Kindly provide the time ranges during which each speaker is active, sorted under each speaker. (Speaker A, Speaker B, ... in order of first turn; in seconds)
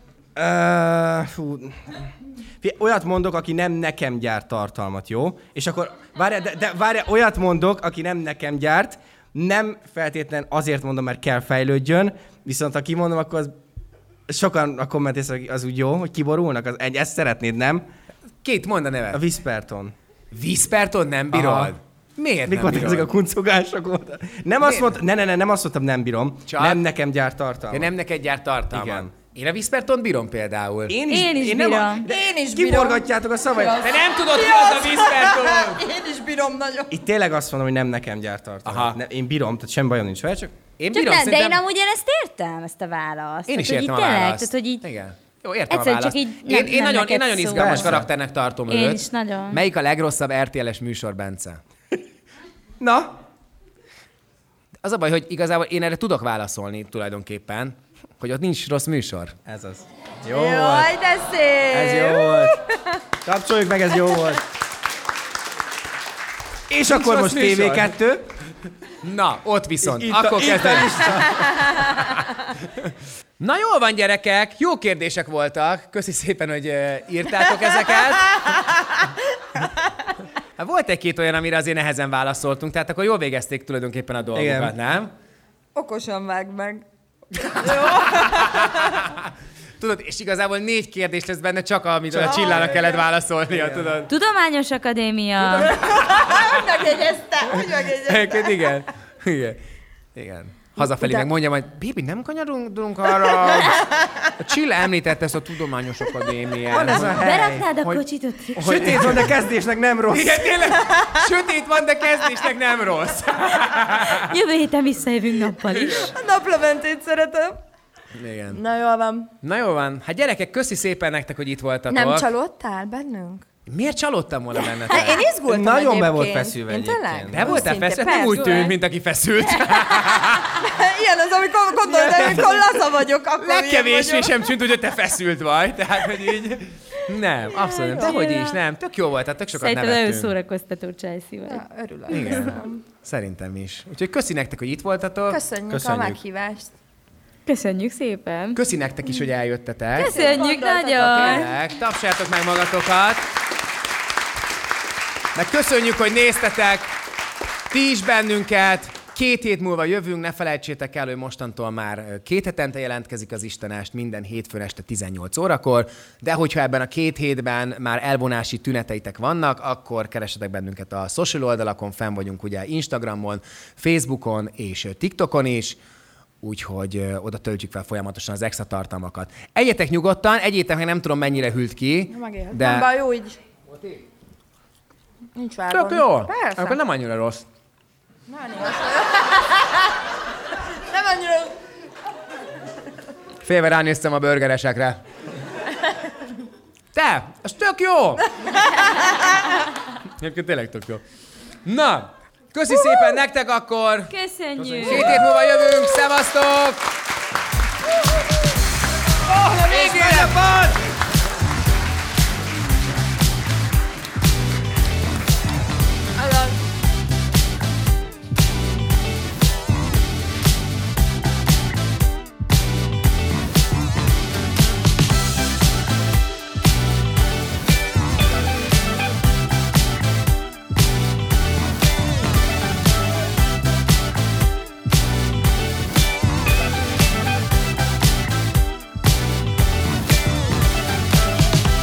Speaker A: 0.4-2.0, 2.6-13.6, 14.3-17.9, 19.1-19.9, 21.3-21.7, 22.4-27.9, 28.7-29.1, 30.9-33.8, 36.9-40.5, 47.5-48.1, 52.8-53.1, 59.5-60.9, 61.7-62.6, 63.2-64.4, 66.7-68.3, 69.8-71.9, 84.3-84.7, 92.1-94.0, 106.7-107.7, 108.6-110.5, 125.4-127.6, 145.7-146.2, 204.9-205.2, 209.3-210.8
Speaker B: 18.4-19.2, 20.3-23.1, 24.6-24.9, 26.5-26.8, 27.7-31.0, 33.8-35.8, 38.7-39.0, 40.8-41.6, 43.5-51.6, 54.8-59.4, 66.9-68.0, 69.0-71.0, 72.8-78.4, 80.6-85.1, 87.4-88.9, 89.8-94.1, 98.1-99.6, 100.2-103.8, 104.4-107.3, 108.5-109.3, 110.1-114.3, 115.8-116.1, 118.1-118.6, 119.4-122.3, 123.7-125.3, 127.3-130.6, 131.8-132.8, 133.4-140.3, 142.1-145.4, 148.6-150.5, 151.0-153.3, 155.3-156.9, 157.7-175.8, 176.4-182.9, 183.7-184.0, 185.7-187.4, 193.4-195.0, 196.9-198.3, 200.2-201.0, 201.7-206.8, 209.5-210.4
Speaker C: 31.1-32.1, 40.9-44.9, 45.7-48.0, 48.7-49.6, 94.1-95.8, 107.2-108.9, 114.0-116.1, 137.8-138.6, 139.6-141.6, 147.5-148.6, 150.0-151.5, 204.1-205.3
Speaker D: 32.0-36.9, 60.3-63.0, 71.4-71.8, 85.8-86.8, 87.5-89.0, 92.2-92.9, 95.5-98.7, 100.8-101.3, 103.2-104.3, 110.8-111.2, 116.1-117.6, 118.5-119.3, 121.9-123.5, 124.6-128.8, 129.7-134.4, 141.5-142.8, 145.3-146.7, 149.9-151.5, 182.1-183.4, 185.4-186.8, 188.3-189.9, 190.8-191.6, 198.4-199.3, 216.2-216.5